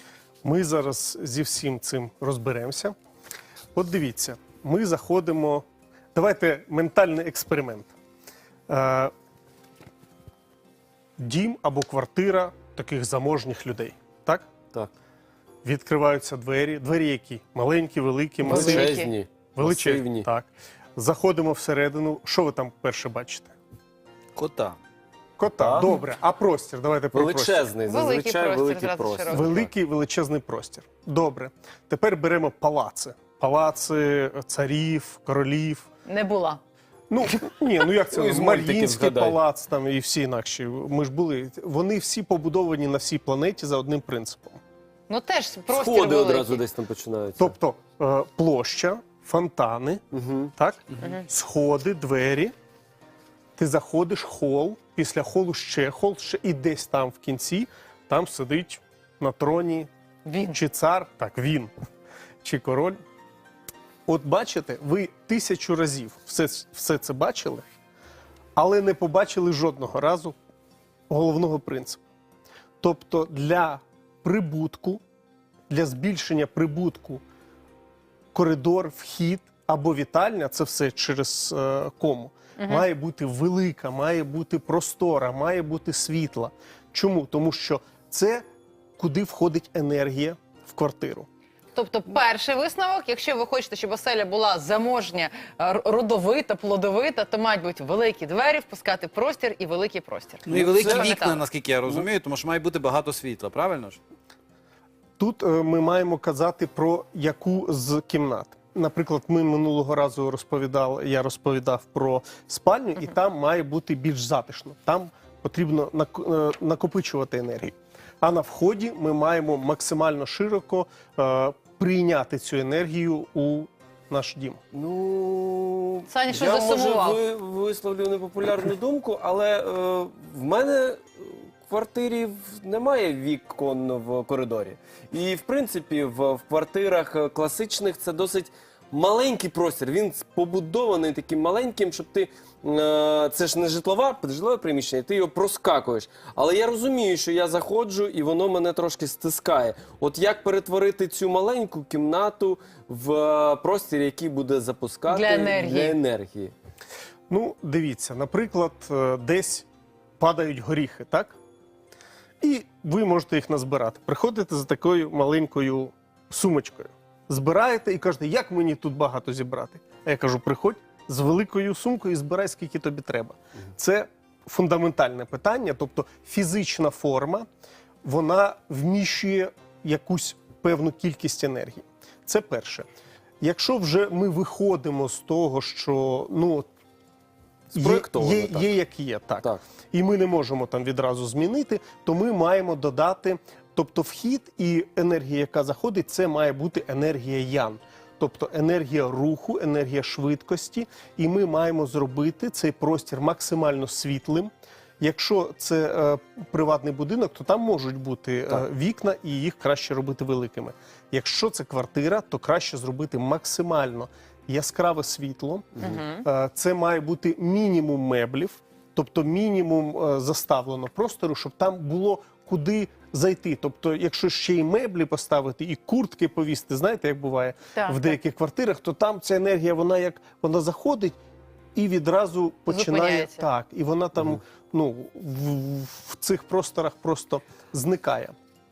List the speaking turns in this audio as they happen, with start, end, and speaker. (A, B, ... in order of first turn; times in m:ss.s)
0:00.4-0:03.0 A
0:03.7-0:07.9 A
0:08.7-0:09.1 A
0:11.2-0:14.5 A
0:15.6-0:19.0 A
0:18.4-0:20.3 B
0:18.5-0:19.1 C
0:19.6-0:23.5 A
0:24.4-0:24.8 D
0:25.4-0:27.6 A
0:25.6-0:26.0 B
0:27.1-0:29.7 B
0:27.9-0:29.5 C
0:29.3-0:35.9 A
0:36.0-0:36.6 C
0:37.1-0:44.6 A
0:38.1-0:39.4 B
0:45.1-0:46.6 C
0:45.7-0:47.6 B
0:47.4-0:50.0 A
0:50.1-0:50.5 B
0:50.6-0:52.5 A
0:53.6-0:59.9 A
1:00.2-1:00.6 C
1:00.5-1:01.7 A
1:02.4-1:03.0 A
1:04.1-1:07.6 A
1:08.6-1:10.4 A
1:11.1-1:12.0 A
1:12.8-1:15.0 A
1:15.7-1:17.2 A
1:18.3-1:28.4 A
1:22.6-1:22.9 C
1:29.0-1:31.3 A
1:31.7-1:41.4 C
1:40.4-1:44.0 D
1:40.5-1:41.1 B
1:45.2-2:04.6 A
2:04.7-2:36.5 B
2:06.1-2:07.2 C
2:35.1-2:36.0 C
2:37.3-2:39.7 A
2:40.2-2:41.4 A
2:42.4-2:57.5 A
2:58.0-3:02.9 A
3:03.4-3:06.7 A
3:07.7-3:08.7 B
3:07.8-3:51.2 A
3:35.8-3:36.2 C
3:47.7-3:48.2 C
3:51.8-3:58.3 A
3:52.7-3:53.5 C